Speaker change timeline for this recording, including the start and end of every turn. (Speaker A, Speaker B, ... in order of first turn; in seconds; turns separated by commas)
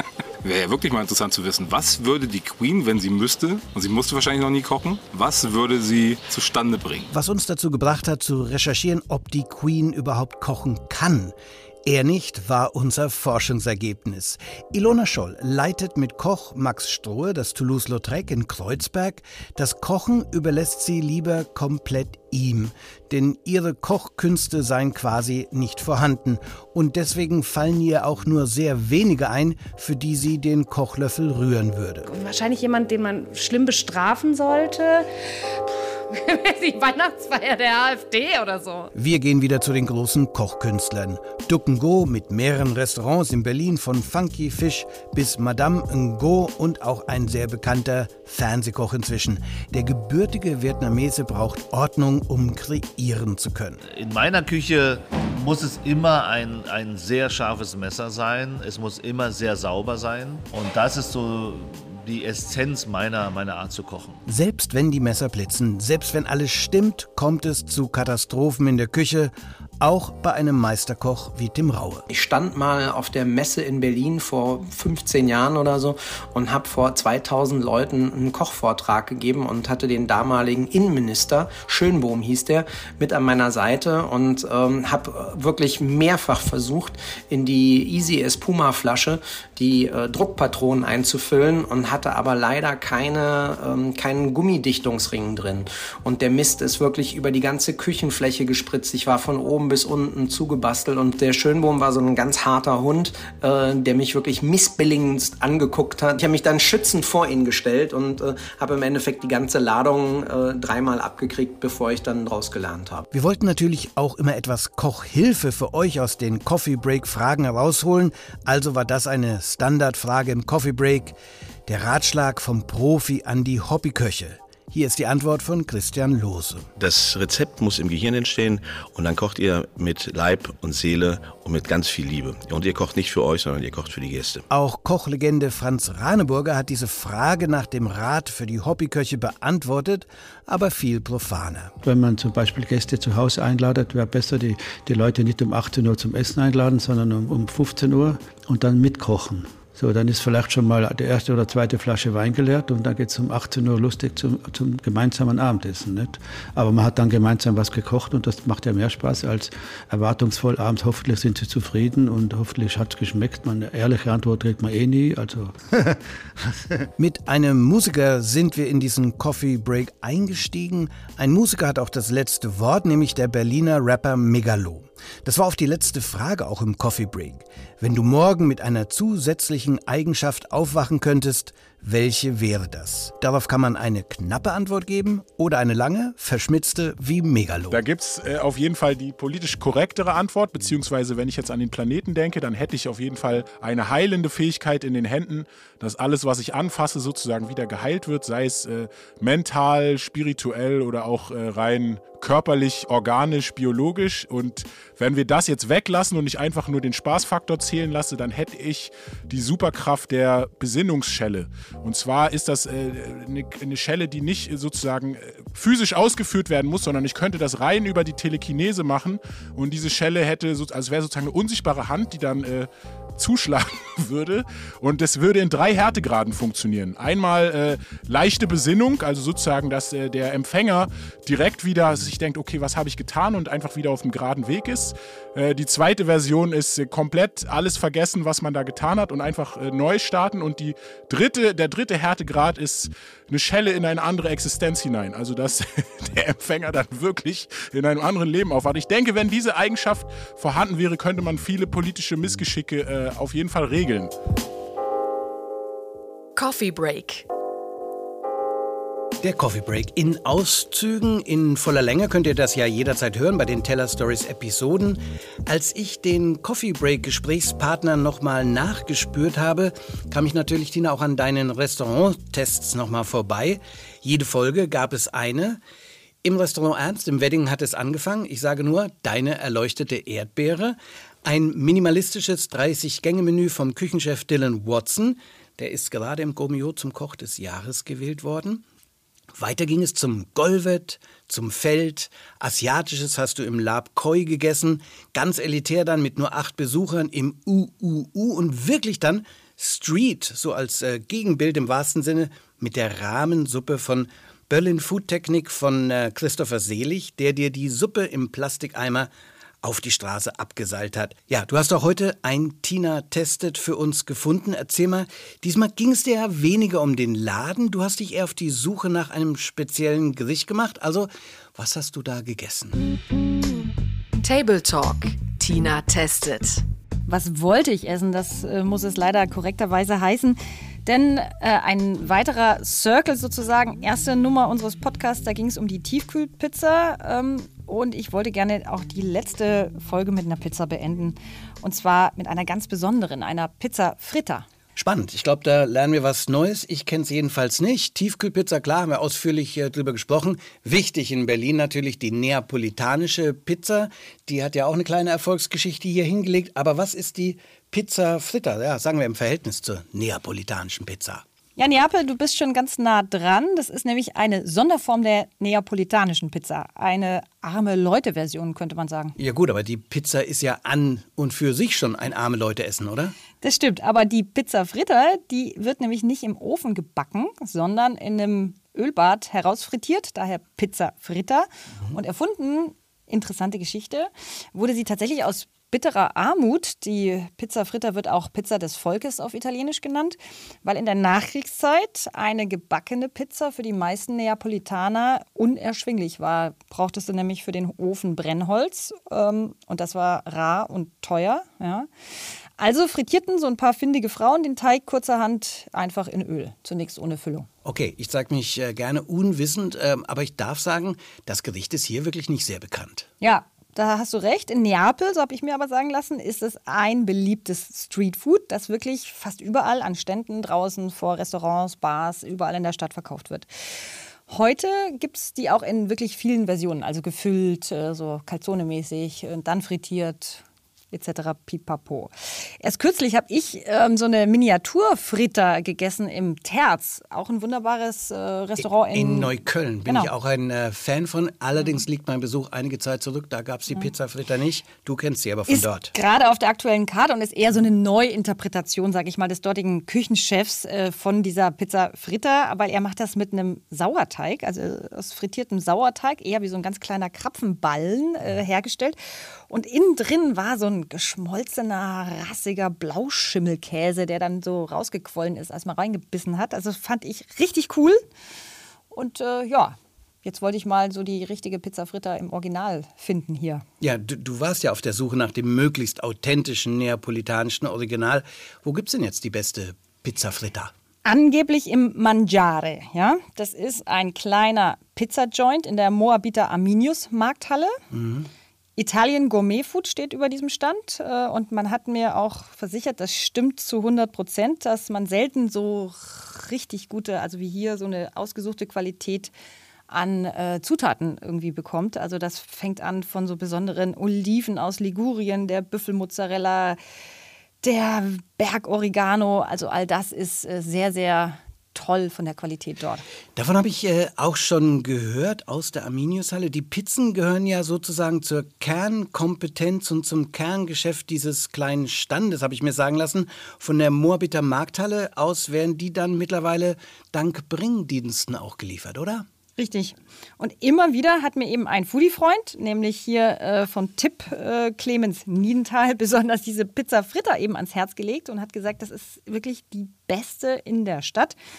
Speaker A: 0.4-7.1, Speaker B: 7.1-32.1, Speaker C: 32.1-38.9, Speaker B: 38.9-53.8, Speaker D: 53.8-64.2, Speaker B: 64.2-72.1, Speaker E: 72.1-113.0, Speaker B: 113.1-121.2, Speaker B: 121.7-126.7, Speaker F: 126.8-134.4, Speaker B: 134.5-141.7, Speaker G: 141.8-165.6, Speaker B: 167.0-187.8, Speaker H: 187.7-254.1, Speaker I: 256.3-257.2, Speaker B: 259.2-275.6, Speaker B: 276.2-288.6, Speaker B: 289.3-309.1, Speaker B: 309.6-322.8, Speaker I: 324.2-326.6, Speaker J: 327.1-344.5, Speaker B: 344.8-361.2, Speaker J: 361.6-369.2, Speaker B: 369.2-373.1, Speaker J: 373.4-401.9, Speaker J: 402.6-407.5, Speaker B: 407.6-413.1, Speaker J: 413.2-423.5, Speaker J: 424.3-440.1, Speaker B: 438.6-445.9, Speaker J: 445.5-459.0, Speaker J: 459.5-468.0, Speaker J: 468.9-473.6, Speaker B: 473.8-480.7, Speaker J: 481.0-487.8, Speaker B: 487.9-488.3, Speaker J: 488.8-499.3, Speaker J: 499.9-506.8, Speaker J: 507.6-513.0, Speaker B: 513.4-529.2, Speaker J: 529.6-541.4